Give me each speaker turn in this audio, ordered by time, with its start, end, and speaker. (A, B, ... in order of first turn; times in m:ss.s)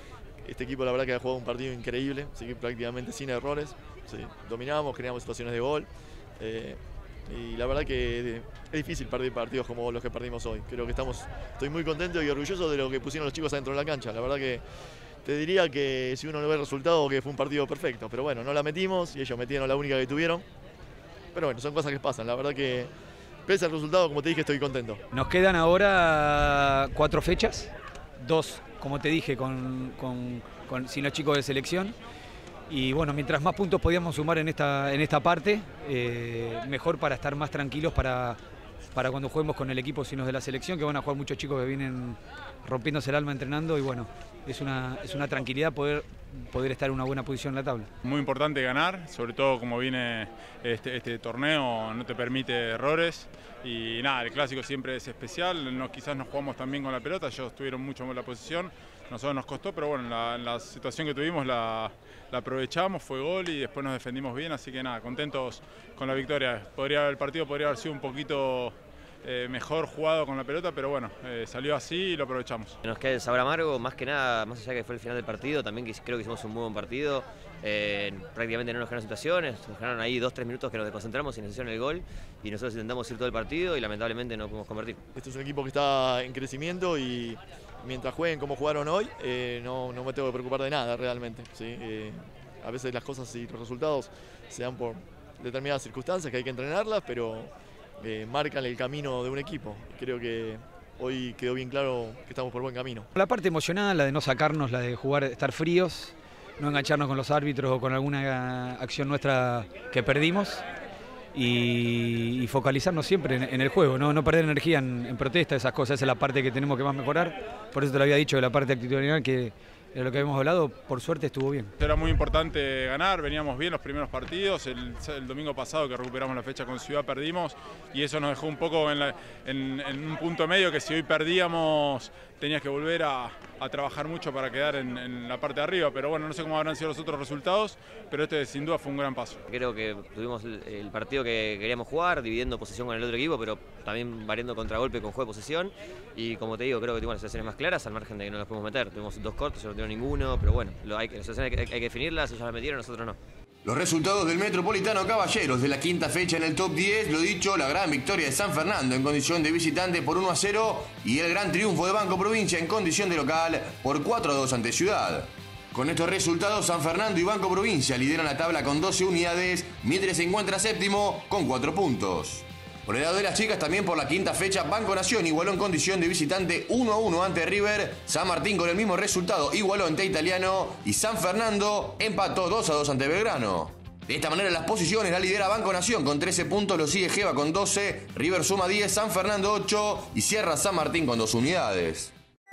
0:00.6-0:14.6 A
0:15.2-0:20.4 A
0:21.3-0:22.9 A
0:23.5-0:25.0 A
0:25.1-0:32.0 B
0:32.7-0:38.4 B
0:38.9-0:47.9 B
0:48.0-1:12.8 C
1:12.8-1:25.0 D
1:25.5-1:43.1 A
1:43.2-1:50.6 B
1:51.3-2:01.7 B
2:01.8-2:19.4 C
2:19.5-2:33.2 D
2:33.6-3:12.1 E